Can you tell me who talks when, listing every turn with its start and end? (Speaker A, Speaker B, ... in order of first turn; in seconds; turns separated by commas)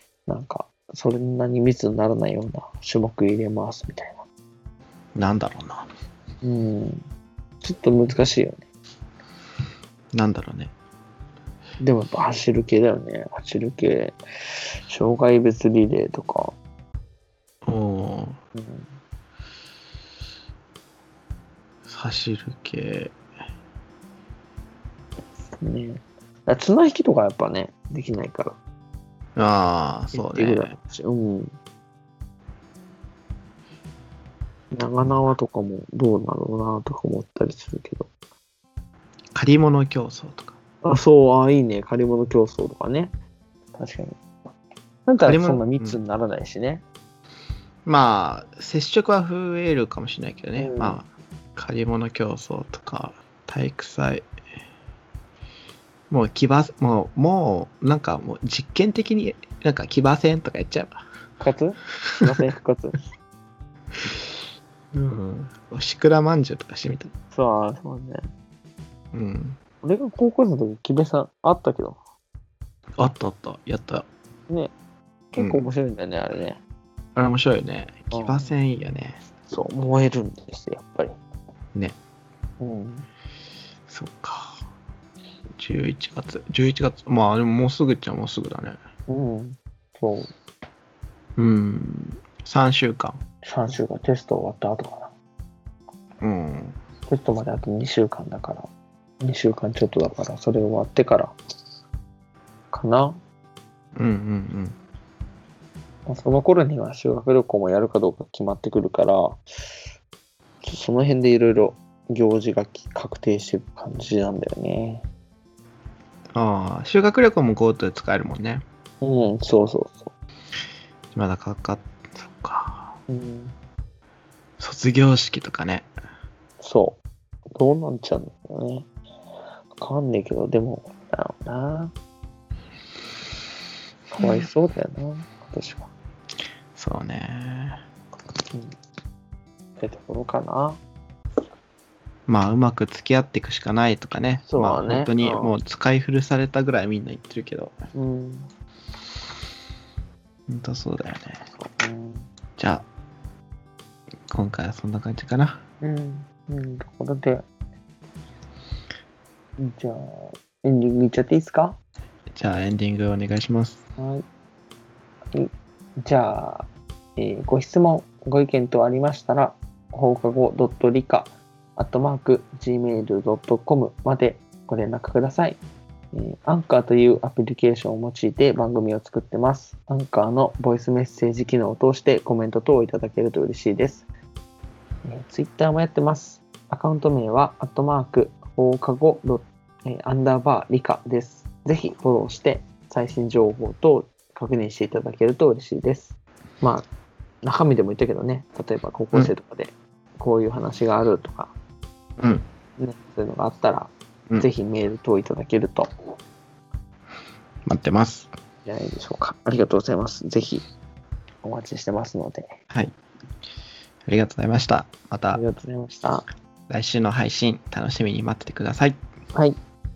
Speaker A: 0.3-4.2, Speaker B: 5.2-5.9, Speaker A: 6.4-7.1, Speaker A: 7.6-8.7, Speaker B: 10.1-10.7, Speaker A: 11.8-14.2, Speaker A: 14.9-16.6, Speaker B: 17.6-18.4, Speaker A: 18.6-18.9, Speaker B: 21.9-23.1, Speaker A: 25.6-28.6, Speaker B: 29.4-30.8, Speaker A: 30.1-31.5, Speaker A: 34.7-38.1, Speaker B: 39.3-40.6, Speaker A: 40.8-43.1, Speaker A: 43.8-44.2, Speaker A: 45.1-46.8, Speaker B: 45.2-46.0, Speaker B: 47.9-54.3, Speaker A: 50.6-51.0, Speaker B: 56.1-61.0, Speaker A: 61.4-63.1, Speaker B: 64.9-67.1, Speaker A: 67.3-68.3, Speaker B: 69.1-69.6, Speaker A: 69.8-72.0, Speaker B: 73.0-74.1, Speaker A: 75.3-76.6, Speaker B: 75.4-75.6, Speaker B: 77.2-79.2, Speaker A: 78.1-78.5, Speaker A: 79.5-81.2, Speaker A: 82.6-83.1, Speaker B: 83.9-84.6, Speaker B: 85.6-88.8, Speaker A: 89.1-90.3, Speaker B: 91.4-93.2, Speaker A: 93.4-95.1, Speaker B: 96.2-96.8, Speaker A: 97.1-98.7, Speaker A: 99.2-101.4, Speaker A: 102.7-103.2, Speaker B: 104.0-104.8, Speaker A: 106.1-109.4, Speaker A: 110.6-115.1, Speaker B: 116.3-118.6, Speaker A: 119.0-120.1, Speaker B: 121.1-123.0, Speaker A: 123.1-123.6, Speaker B: 124.6-125.9, Speaker A: 126.6-127.0, Speaker A: 127.5-128.9, Speaker A: 129.8-131.9, Speaker A: 134.1-135.9, Speaker B: 136.8-137.8, Speaker A: 139.8-140.8, Speaker B: 142.3-147.8, Speaker A: 144.5-145.6, Speaker A: 147.9-148.5, Speaker B: 150.5-151.4, Speaker A: 151.5-152.3, Speaker B: 152.6-152.8, Speaker B: 154.3-155.6, Speaker A: 155.8-157.4, Speaker A: 159.6-161.8, Speaker B: 162.3-163.8, Speaker A: 164.0-164.2, Speaker A: 166.0-175.6, Speaker A: 176.1-184.1, Speaker A: 185.1-196.9, Speaker A: 197.4-201.5, Speaker B: 202.2-202.4, Speaker A: 202.8-205.9, Speaker B: 207.7-208.3, Speaker A: 208.7-210.7, Speaker A: 211.4-212.6, Speaker B: 214.1-215.4, Speaker A: 215.3-216.3, Speaker B: 216.7-219.0